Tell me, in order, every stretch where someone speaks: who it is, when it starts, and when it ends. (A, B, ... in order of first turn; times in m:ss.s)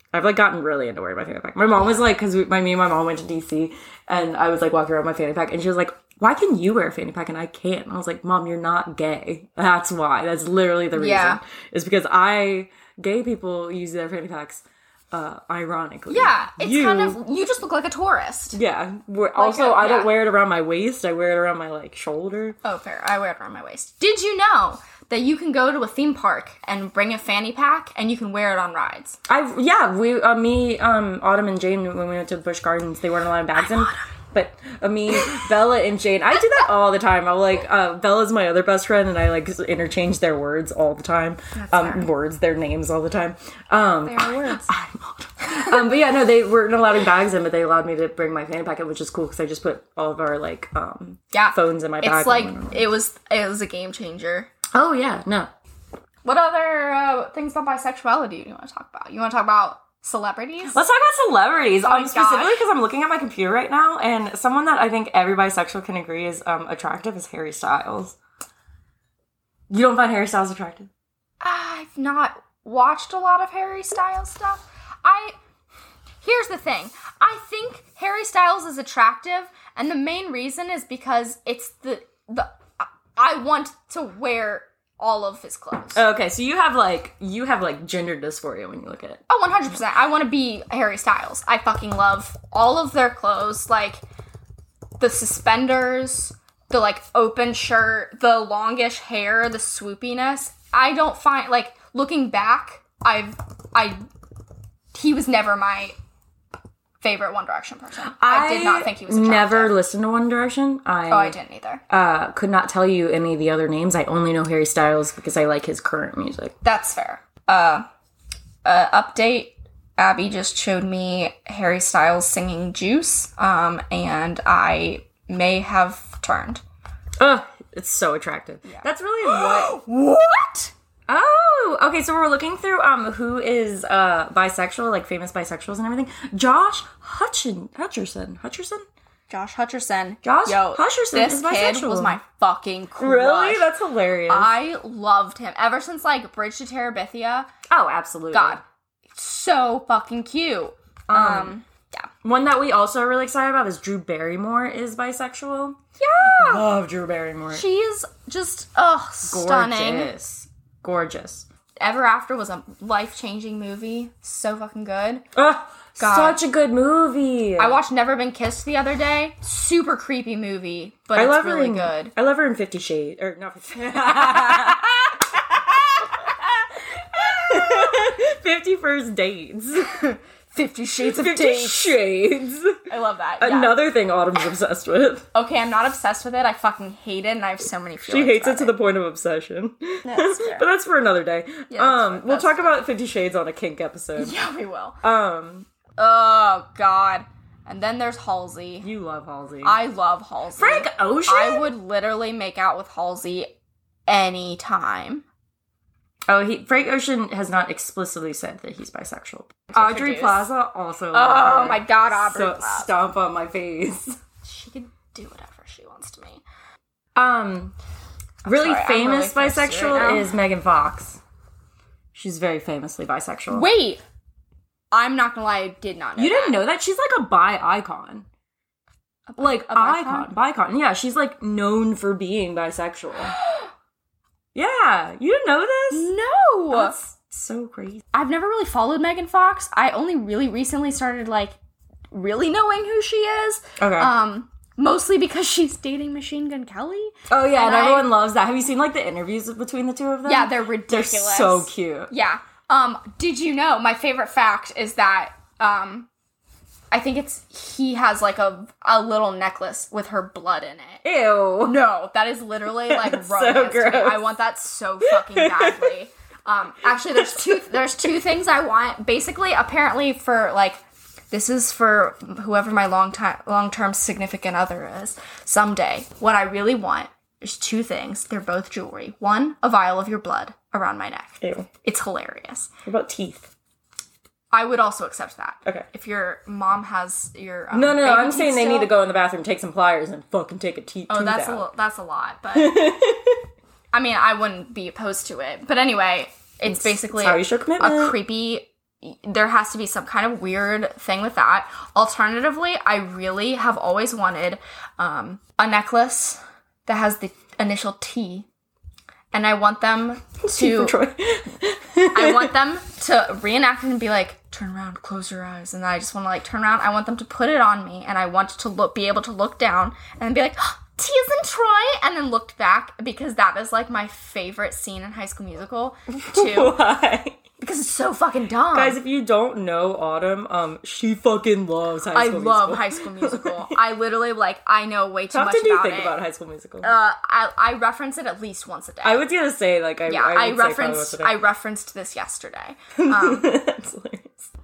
0:00.1-0:17.2 A
0:10.9-0:11.4 B
0:16.1-0:18.6 B
0:18.5-0:22.6 A
0:19.4-0:20.1 B
0:22.6-0:29.2 B
0:29.3-0:52.9 A
0:41.5-0:42.1 B
0:44.0-0:44.7 B
0:45.4-0:45.8 B
0:51.3-0:54.5 B
0:54.7-0:55.5 A
0:56.2-1:00.8 B
1:00.7-1:08.2 A
1:01.8-1:02.6 B
1:09.7-1:10.9 A
1:11.4-1:15.4 B
1:16.2-1:26.0 B
1:25.9-1:29.2 A
1:29.3-1:34.0 B
1:35.0-1:44.0 B
1:44.9-1:46.0 B
1:47.0-1:49.8 B
1:48.2-1:51.4 A
1:51.1-1:51.8 B
1:51.9-1:56.5 A
1:56.6-1:57.8 B
1:58.6-2:06.6 B
2:07.2-2:09.8 A
2:08.6-2:10.7 B
2:11.1-2:18.8 A
2:19.3-2:23.7 B
2:20.2-2:22.2 A
2:23.0-2:24.5 A
2:24.3-2:27.5 B
2:27.7-2:28.6 A
2:28.3-2:28.6 B
2:29.2-2:32.1 B
2:31.1-2:31.6 A
2:32.2-2:37.6 A
2:36.0-2:36.7 B
2:37.5-2:40.1 B
2:39.3-2:41.5 A
2:41.8-2:45.2 B
2:45.3-2:47.8 A
2:46.0-2:46.4 B
2:47.6-2:52.1 B
2:51.1-3:00.1 A
2:54.3-2:54.8 B
2:57.2-2:57.5 B
2:59.9-3:01.9 B
3:01.0-3:02.8 A
3:02.9-3:03.8 B
3:03.4-3:05.3 A
3:05.3-3:08.7 B
3:08.0-3:14.4 A
3:10.0-3:10.7 B
3:11.7-3:12.7 B
3:14.2-3:15.0 B
3:15.0-3:15.7 A
3:16.0-3:18.9 B
3:18.8-3:19.8 A
3:19.6-3:23.5 B
3:20.6-3:21.7 A
3:24.1-3:25.2 B
3:26.3-3:34.2 A
3:29.7-3:30.4 B
3:31.1-3:32.9 B
3:34.4-3:36.4 B
3:37.1-3:37.7 A
3:38.4-3:40.3 B
3:38.4-3:41.2 A
3:42.1-3:43.7 A
3:43.5-3:44.0 B
3:44.9-3:46.6 B
3:46.2-3:48.2 A
3:49.3-3:50.3 B
3:49.4-3:53.3 A
3:54.5-3:56.1 A
3:55.9-3:57.0 B
3:56.7-3:58.0 A
3:58.1-4:01.6 B
4:02.1-4:08.1 B
4:03.8-4:04.1 A
4:07.3-4:12.1 A
4:10.2-4:16.1 B
4:16.9-4:21.0 B
4:21.0-4:21.8 A
4:21.6-4:42.7 B
4:22.8-4:24.3 A
4:25.0-4:26.0 A
4:41.4-4:41.7 A
4:42.8-4:43.5 A
4:44.5-4:48.9 B
4:47.7-4:51.7 A
4:51.1-4:52.9 B
4:52.5-4:53.4 A
4:53.9-5:08.4 B
4:56.6-4:58.2 A
5:09.3-5:11.0 B
5:10.4-5:12.5 A
5:12.1-5:26.8 B
5:26.3-5:27.4 A
5:27.6-5:29.0 B
5:28.7-5:33.8 A
5:32.1-5:36.1 B
5:35.3-5:36.9 A
5:36.8-5:39.2 B
5:39.0-5:41.4 A
5:40.1-5:43.6 B
5:42.9-5:44.3 A